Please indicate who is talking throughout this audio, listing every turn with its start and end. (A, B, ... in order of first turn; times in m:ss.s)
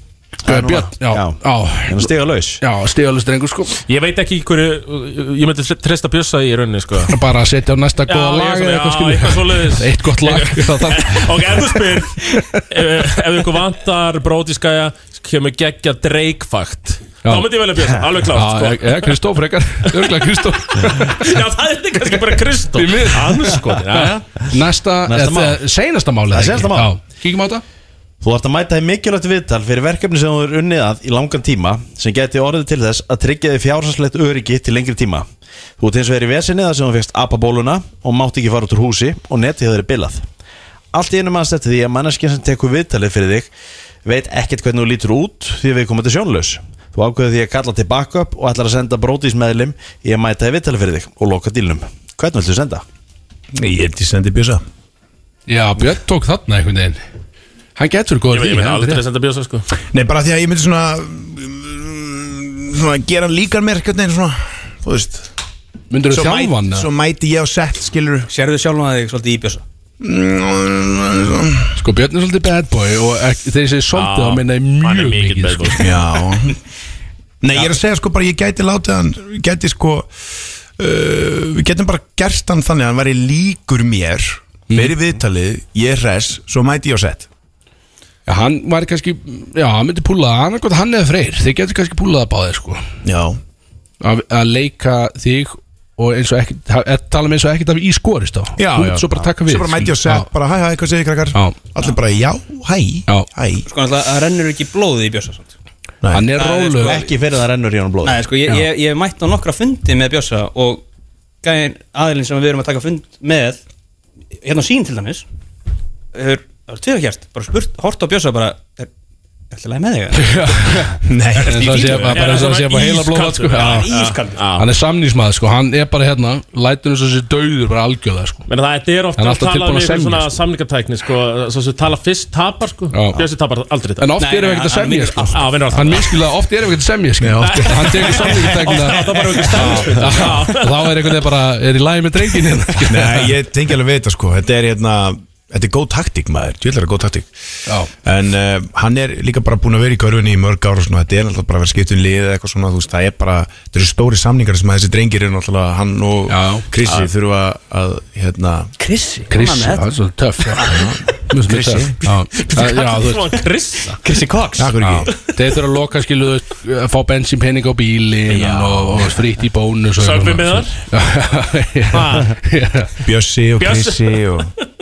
0:00.4-0:02.6 A
0:00.5-0:03.8 B
0:03.9-0:07.1 C
0:07.1-0:11.7 B
0:08.1-0:12.2 C
0:12.2-0:12.6 B
0:12.7-0:19.2 C
0:17.2-0:17.5 B
0:18.3-0:21.2 B
0:21.1-0:24.3 C
0:22.8-0:27.6 B
0:25.1-0:25.6 A
0:26.3-0:26.9 A
0:28.2-0:35.3 A
0:35.8-0:40.2 A
0:40.9-0:43.5 A
0:44.0-0:52.8 A
0:53.5-0:54.6 D
0:55.5-0:57.0 B
0:57.8-0:59.0 B
0:58.3-0:59.6 C
0:59.9-1:05.3 D
1:05.9-1:06.9 B
1:06.1-1:08.3 D
1:08.3-1:09.6 E
1:10.0-1:11.7 D
1:11.8-1:15.9 B
1:13.9-1:15.9 C
1:15.8-1:16.6 D
1:17.4-1:20.1 D
1:20.8-1:27.3 D
1:24.7-1:25.0 B
1:28.3-1:32.8 B
1:33.0-1:33.4 D
1:34.0-1:40.3 B
1:38.6-1:43.7 D
1:43.7-1:45.5 E
1:46.0-1:46.3 D
1:46.1-1:47.0 B
1:46.4-1:47.1 E
1:46.8-1:48.2 A
1:48.0-1:50.8 E
1:51.4-1:53.6 E
1:54.4-1:55.2 E
1:56.1-1:58.9 E
1:59.5-2:00.9 E
2:00.2-2:03.9 B
2:01.0-2:02.1 D
2:01.5-2:02.6 E
2:02.0-2:04.7 C
2:03.5-2:04.4 E
2:04.6-2:08.5 B
2:08.5-2:14.1 C
2:09.2-2:10.3 B
2:12.9-2:13.2 B
2:14.0-2:23.3 B
2:14.2-2:16.0 E
2:15.4-2:16.2 C
2:17.2-2:18.6 D
2:17.4-2:21.2 C
2:22.9-2:27.3 D
2:28.0-2:38.7 D
2:36.3-2:36.7 B
2:38.8-2:39.9 E
2:39.3-2:40.8 B
2:40.5-2:40.9 E
2:40.6-2:42.0 D
2:41.3-2:43.4 B
2:42.4-2:44.0 C
2:44.0-2:44.8 E
2:44.6-2:45.1 D
2:44.9-2:52.9 B
2:50.0-2:50.8 C
2:51.9-2:52.4 C
2:53.0-2:54.5 D
2:53.6-2:54.2 C